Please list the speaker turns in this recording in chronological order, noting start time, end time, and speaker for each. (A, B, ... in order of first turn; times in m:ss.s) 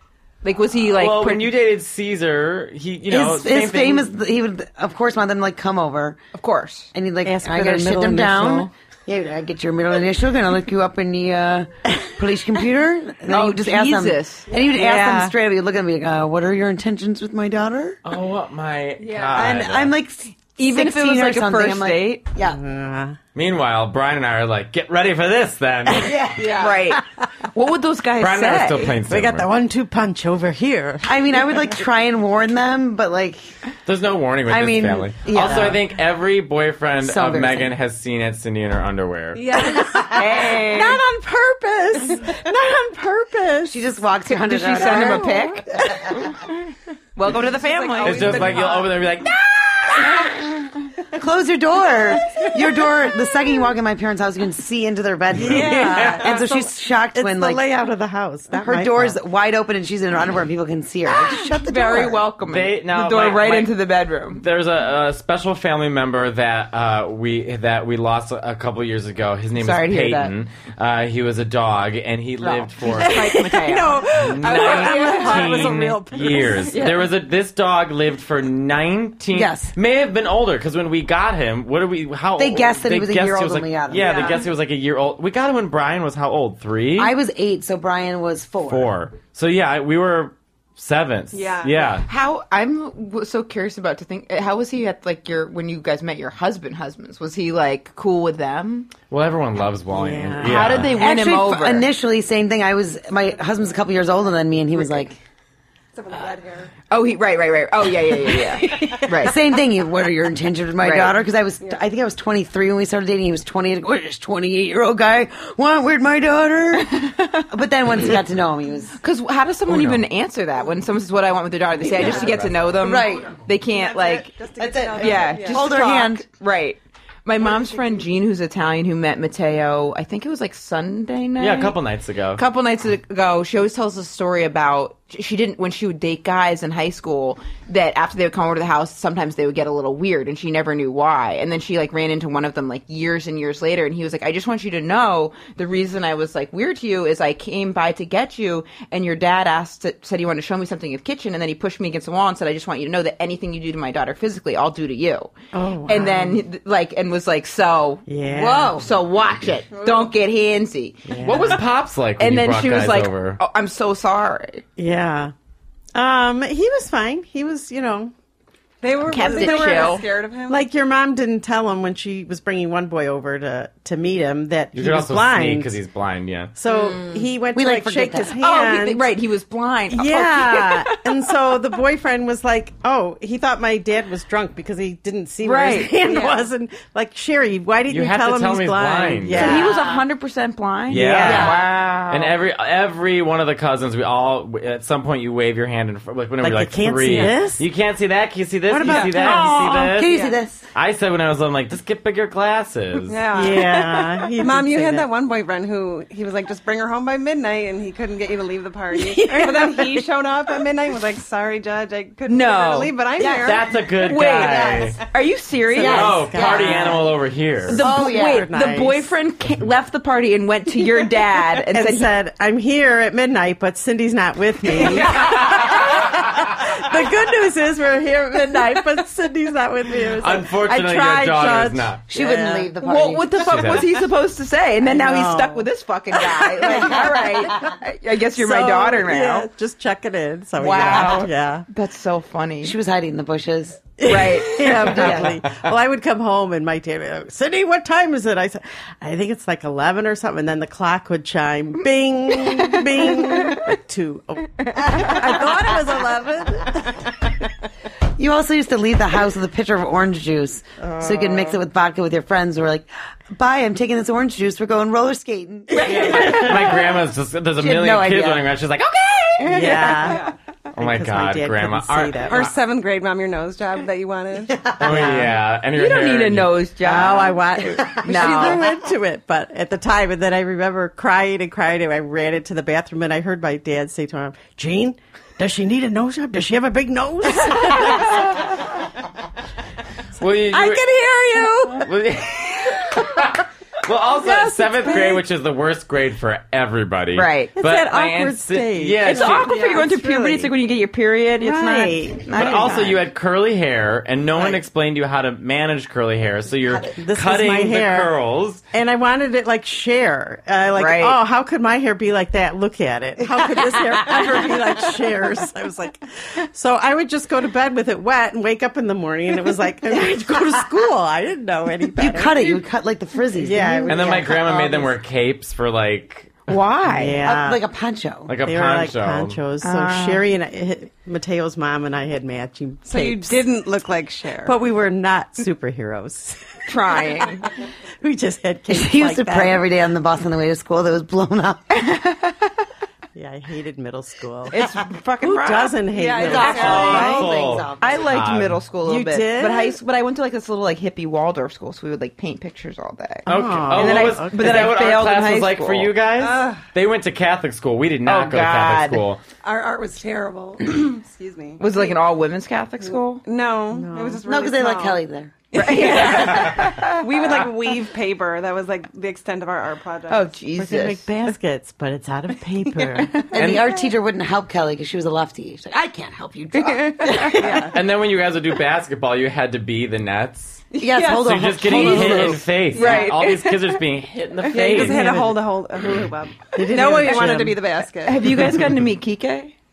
0:00.4-0:01.5 A
0:00.9-0:04.1 B
0:03.1-0:06.2 C
0:06.3-0:06.9 A
0:06.9-0:18.0 C
0:07.2-0:08.7 D
0:13.3-0:15.3 A
0:18.0-0:20.0 B
0:19.0-0:19.6 E
0:19.3-0:22.6 C
0:20.5-0:22.2 A
0:22.5-0:23.2 D
0:23.3-0:26.3 B
0:25.9-0:26.6 C
0:26.3-0:26.9 E
0:26.5-0:28.9 A
0:28.2-0:29.5 B
0:29.1-0:31.2 D
0:31.0-0:33.5 C
0:33.8-0:39.5 B
0:34.5-0:35.8 C
0:35.4-0:35.8 D
0:37.0-0:37.7 C
0:39.3-0:40.4 E
0:39.7-0:43.7 D
0:40.1-0:41.0 A
0:43.6-0:45.8 C
0:44.2-0:45.6 A
0:47.1-0:48.8 A
0:47.3-0:48.9 E
0:48.0-0:50.3 B
0:51.1-0:57.6 C
0:55.3-0:59.2 D
0:55.4-0:56.4 B
0:55.8-0:56.4 E
0:58.5-1:02.2 C
1:01.2-1:04.4 A
1:02.4-1:03.7 B
1:04.3-1:13.5 B
1:09.6-1:10.3 A
1:12.4-1:15.8 A
1:12.8-1:16.8 D
1:14.0-1:27.1 B
1:16.4-1:17.1 A
1:19.3-1:19.7 C
1:22.4-1:24.4 C
1:24.0-1:24.4 E
1:24.0-1:24.4 A
1:27.0-1:28.9 C
1:28.7-1:32.1 B
1:31.3-1:32.0 E
1:32.0-1:38.9 A
1:39.1-1:41.0 B
1:39.9-1:40.8 D
1:40.4-1:41.9 A
1:40.7-1:45.2 C
1:45.9-1:46.7 E
1:46.9-1:49.4 A
1:48.8-1:59.0 C
1:50.8-1:51.1 A
1:57.1-1:57.4 A
1:59.0-2:04.3 A
1:59.7-2:00.0 B
2:02.0-2:02.5 B
2:02.8-2:03.4 C
2:03.6-2:05.8 E
2:04.6-2:06.2 C
2:04.9-2:11.8 A
2:11.4-2:12.4 B
2:12.3-2:35.3 A
2:35.5-2:36.4 D
2:35.8-2:41.6 A
2:38.1-2:38.8 D
2:38.3-2:38.8 C
2:39.7-2:40.1 E
2:41.1-2:41.6 D
2:41.2-2:43.4 B
2:42.2-2:44.6 A
2:44.8-2:45.3 D
2:45.9-2:48.1 D
2:48.8-2:50.6 E
2:49.0-2:50.1 A
2:49.2-2:49.8 D
2:50.5-2:55.8 D
2:54.7-2:56.5 B
2:56.5-2:59.1 D
2:56.7-2:57.3 A
2:57.5-2:58.4 C
2:58.3-3:01.0 A
2:59.9-3:10.0 D
3:05.4-3:06.3 A
3:06.0-3:06.5 E
3:07.9-3:09.7 B
3:09.3-3:12.3 A
3:10.9-3:20.1 B
3:10.9-3:11.6 D
3:11.2-3:11.6 C
3:11.3-3:11.6 E
3:16.4-3:17.6 D
3:18.7-3:19.5 D
3:18.8-3:20.4 E
3:19.1-3:20.6 C
3:20.7-3:23.2 B
3:23.1-3:35.0 E
3:23.3-3:25.1 D
3:28.9-3:30.0 A
3:32.3-3:32.9 A
3:33.2-3:33.5 C
3:33.3-3:35.0 B
3:34.0-3:36.3 A
3:35.7-3:37.0 C
3:35.8-3:37.8 B
3:35.8-3:37.1 D
3:37.7-3:42.1 A
3:37.8-3:39.1 D
3:37.8-3:38.5 C
3:41.6-3:52.7 D
3:44.7-3:46.3 B
3:50.2-3:52.0 B
3:52.1-3:53.7 C
3:52.8-3:59.5 A
3:53.4-3:53.9 B
3:54.8-3:57.7 D
3:56.7-3:57.2 C
3:58.3-4:01.6 D
4:00.6-4:02.8 A
4:00.9-4:01.2 B
4:02.6-4:05.4 C
4:04.0-4:17.2 D
4:04.0-4:05.2 A
4:12.7-4:13.7 A
4:14.7-4:15.6 A
4:18.2-4:26.5 C
4:20.8-4:21.6 D
4:25.7-4:26.7 D
4:25.8-4:26.6 A
4:25.8-4:30.0 B
4:27.6-4:28.3 A
4:27.6-4:28.4 C
4:29.4-4:32.5 D
4:29.4-4:30.3 A
4:30.8-4:32.5 B
4:32.2-4:34.8 E
4:34.8-4:36.6 B
4:34.8-4:35.3 D
4:35.7-4:38.6 A
4:36.8-4:48.6 D
4:50.2-4:51.0 B
4:50.5-4:51.8 D
4:51.4-4:51.8 A
4:51.7-4:59.5 B
4:54.2-4:55.2 D
4:57.1-4:57.5 A
4:57.6-4:59.2 D
4:59.0-5:03.0 A
4:59.1-5:00.5 E
5:01.4-5:02.6 D
5:02.3-5:08.6 B
5:04.3-5:04.6 D
5:07.0-5:08.1 D
5:08.7-5:22.6 D
5:10.8-5:11.2 A
5:22.0-5:24.3 C
5:23.4-5:24.9 D
5:23.9-5:26.4 B
5:26.5-5:27.2 A
5:26.8-5:27.6 D
5:27.2-5:28.3 C
5:28.3-5:29.4 B
5:28.4-5:33.5 D
5:29.6-5:30.2 A
5:32.9-5:34.6 E
5:34.4-5:37.4 D
5:36.7-5:37.4 A
5:38.0-5:39.6 D
5:38.7-5:41.6 C
5:41.7-5:42.5 A
5:43.1-5:44.6 D
5:44.5-5:55.9 A
5:45.2-5:47.1 D
5:45.9-5:47.3 E
5:46.3-5:48.6 B
5:46.4-5:48.1 C
5:48.8-5:49.8 D
5:53.2-5:54.8 D
5:53.2-5:59.2 B
5:56.1-5:56.6 E
5:58.0-5:59.0 A
5:59.4-6:02.0 E
6:01.6-6:03.2 A
6:02.8-6:05.0 E
6:03.7-6:04.2 D
6:04.2-6:06.0 C
6:05.5-6:07.3 A
6:05.5-6:10.3 E
6:06.0-6:06.6 B
6:10.1-6:11.0 A
6:10.6-6:13.3 D
6:13.3-6:17.6 C
6:13.3-6:13.7 B
6:16.5-6:17.7 A
6:17.2-6:17.8 E
6:17.7-6:25.2 B
6:20.8-6:21.2 E
6:20.8-6:21.0 A
6:20.8-6:22.5 C
6:21.6-6:23.8 A
6:22.7-6:23.5 E
6:24.5-6:28.2 E
6:24.5-6:25.4 D
6:26.5-6:27.6 D
6:26.7-6:29.5 A
6:28.4-6:28.7 B